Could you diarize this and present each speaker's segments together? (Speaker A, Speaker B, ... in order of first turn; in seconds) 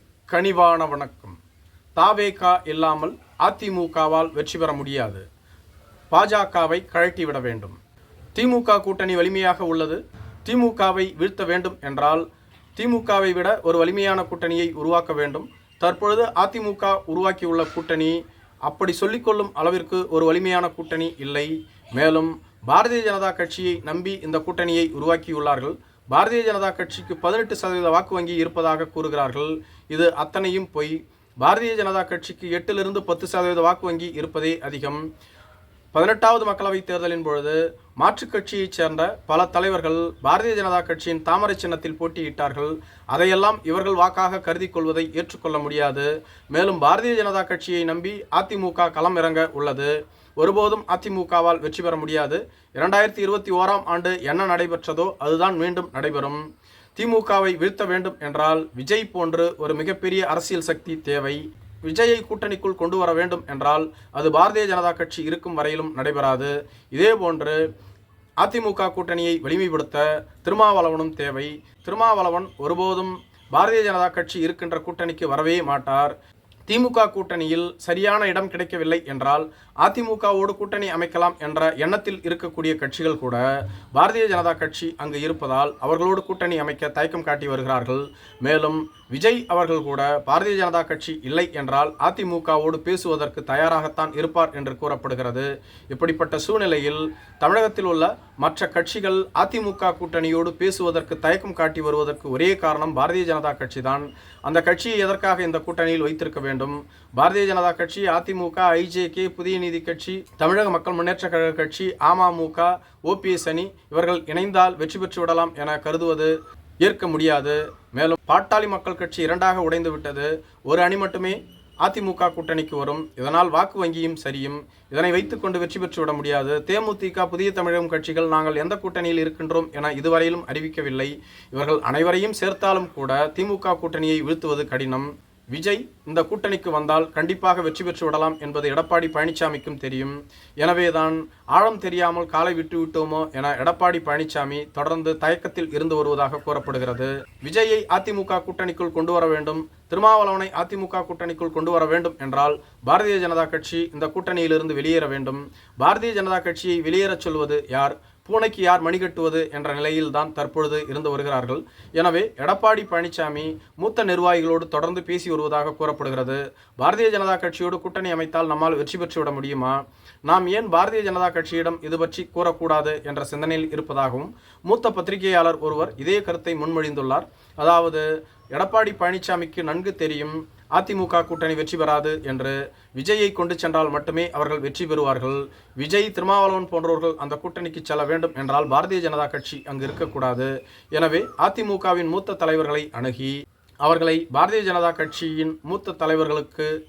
Speaker A: 0.3-1.4, 2.0-5.2, 6.1-7.8, 8.3-12.2, 12.8-35.0, 35.9-56.4, 57.0-67.6, 68.4-76.1, 76.7-83.4, 83.9-196.7